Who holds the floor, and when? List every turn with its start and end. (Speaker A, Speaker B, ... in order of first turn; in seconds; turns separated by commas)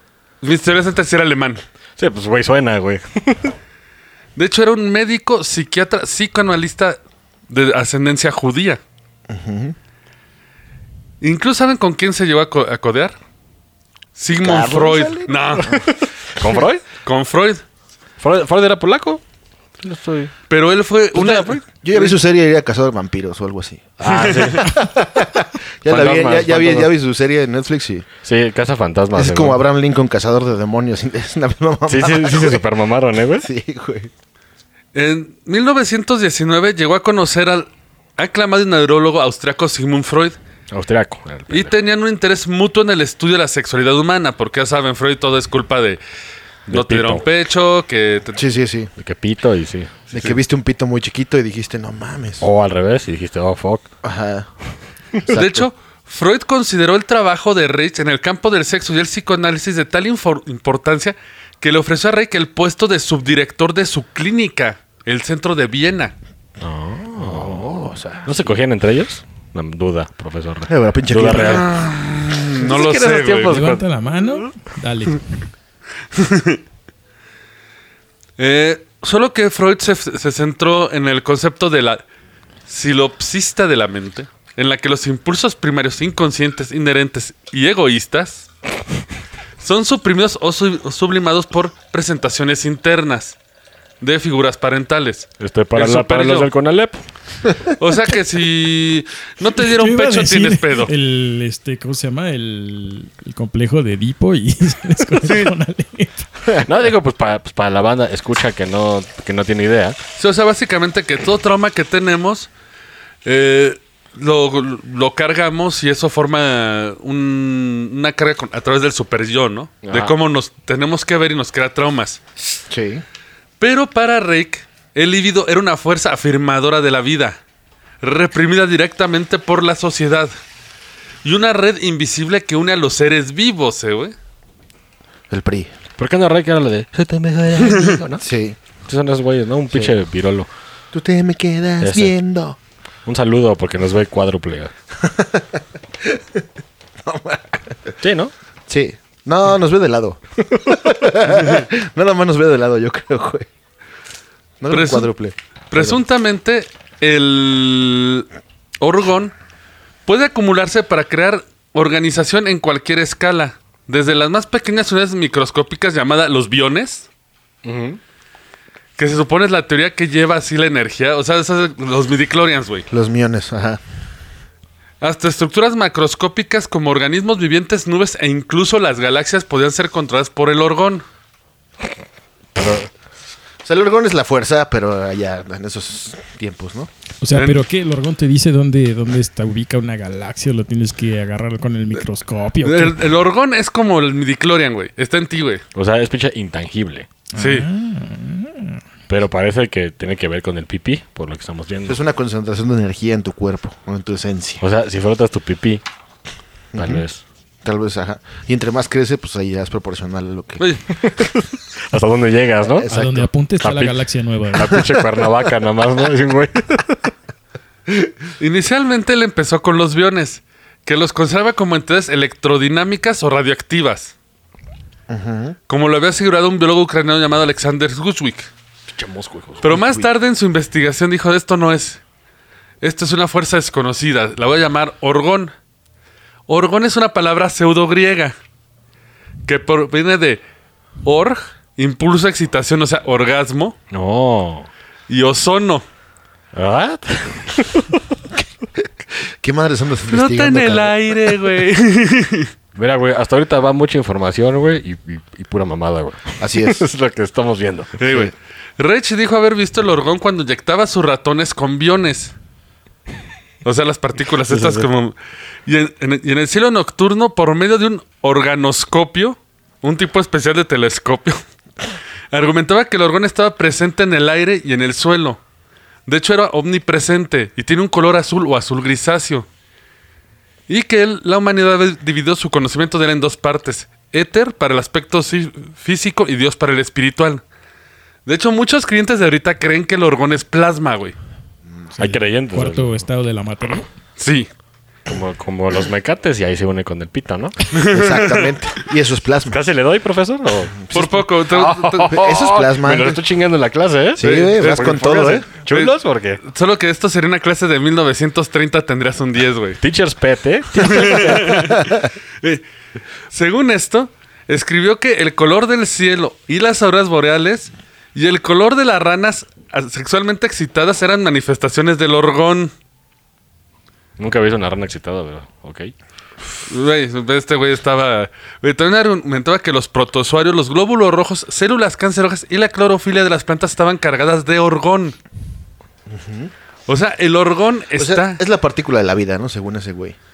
Speaker A: 0.4-1.6, Speaker B: 2.0-3.5, Speaker A: 4.3-7.0, Speaker A: 7.5-8.8, Speaker C: 9.3-9.7, Speaker A: 11.2-13.1, Speaker A: 14.2-15.8, Speaker C: 14.4-15.8, Speaker B: 15.6-16.8, Speaker A: 17.0-17.6, Speaker B: 18.2-19.2, Speaker B: 19.8-20.3, Speaker A: 20.5-22.2, Speaker B: 21.1-21.6, Speaker C: 21.8-28.1, Speaker B: 24.0-24.9, Speaker A: 24.1-24.6, Speaker B: 25.9-26.9, Speaker B: 28.2-29.6, Speaker C: 29.1-32.6, Speaker B: 31.9-33.5, Speaker C: 33.4-34.1, Speaker A: 34.9-40.4, Speaker B: 40.7-41.7, Speaker A: 41.5-46.0, Speaker B: 46.7-47.2, Speaker A: 46.7-48.4, Speaker C: 48.4-48.9, Speaker B: 49.0-50.1, Speaker C: 50.1-52.5, Speaker B: 52.4-53.9, Speaker C: 54.0-54.5, Speaker C: 55.3-55.6, Speaker A: 55.3-66.1, Speaker B: 66.6-71.8, Speaker C: 67.2-68.4, Speaker C: 70.7-71.8, Speaker A: 71.3-73.5, Speaker B: 72.6-73.9, Speaker D: 73.5-75.2, Speaker A: 76.1-76.6, Speaker A: 78.4-82.0, Speaker A: 82.7-88.5, Speaker A: 89.6-93.4, Speaker A: 94.0-96.5, Speaker B: 95.4-97.0, Speaker A: 97.8-100.9, Speaker D: 99.6-106.2, Speaker A: 105.2-105.5, Speaker B: 106.6-110.0, Speaker A: 110.2-112.5, Speaker A: 113.2-122.2, Speaker B: 119.8-120.1, Speaker C: 122.7-123.0, Speaker A: 123.6-127.4, Speaker A: 128.0-130.3, Speaker A: 131.2-134.1, Speaker C: 135.3-135.7, Speaker B: 136.0-138.2, Speaker C: 138.2-138.6, Speaker B: 138.8-140.5, Speaker C: 140.9-142.6, Speaker B: 141.8-142.1, Speaker B: 143.1-144.7, Speaker C: 145.1-146.2, Speaker C: 147.1-147.9, Speaker B: 148.0-148.3, Speaker C: 148.7-153.5, Speaker C: 154.6-156.0, Speaker A: 154.7-155.1, Speaker A: 155.7-158.3, Speaker A: 158.8-159.3, Speaker A: 160.1-167.1, Speaker B: 167.6-168.0, Speaker A: 169.0-172.9, Speaker C: 172.9-173.8, Speaker A: 175.0-181.0, Speaker B: 182.6-182.9, Speaker C: 183.6-186.9, Speaker D: 187.2-193.0, Speaker A: 187.3-187.6, Speaker A: 192.6-195.6, Speaker B: 195.7-197.1, Speaker D: 197.3-198.8, Speaker A: 197.4-197.7, Speaker B: 199.1-202.0, Speaker C: 201.8-204.6, Speaker B: 204.6-205.8, Speaker C: 206.7-207.0, Speaker B: 206.7-207.2, Speaker C: 207.6-210.7, Speaker B: 211.0-213.0, Speaker C: 212.6-213.2, Speaker D: 212.9-214.8, Speaker B: 213.6-217.1, Speaker A: 218.4-224.1, Speaker C: 225.1-225.6, Speaker A: 225.7-228.5, Speaker B: 228.9-230.0, Speaker A: 229.6-232.0, Speaker A: 232.8-235.5, Speaker A: 236.5-238.3, Speaker A: 239.4-240.4, Speaker A: 241.0-243.8, Speaker B: 243.9-244.7, Speaker A: 245.1-245.8, Speaker B: 246.5-248.0, Speaker C: 249.4-250.9, Speaker A: 250.1-252.5, Speaker B: 252.7-258.0, Speaker C: 256.4-256.8, Speaker A: 258.0-262.3, Speaker A: 263.6-265.1, Speaker B: 264.5-264.9, Speaker A: 265.6-271.4, Speaker A: 272.3-275.4, Speaker A: 276.1-279.5, Speaker A: 280.7-287.4, Speaker A: 288.2-291.1, Speaker D: 292.0-293.9, Speaker B: 292.0-293.0, Speaker A: 294.2-294.5, Speaker B: 295.1-297.6, Speaker A: 297.7-298.5, Speaker C: 297.8-299.6, Speaker B: 299.5-300.9, Speaker A: 300.9-302.2, Speaker B: 301.5-306.4, Speaker C: 302.1-303.2, Speaker C: 304.2-305.5, Speaker A: 304.2-309.8, Speaker B: 309.8-311.7, Speaker A: 310.8-312.6, Speaker A: 313.3-322.7, Speaker B: 324.2-325.9, Speaker A: 326.6-335.1, Speaker C: 336.1-336.5, Speaker A: 336.9-338.4, Speaker C: 338.0-340.1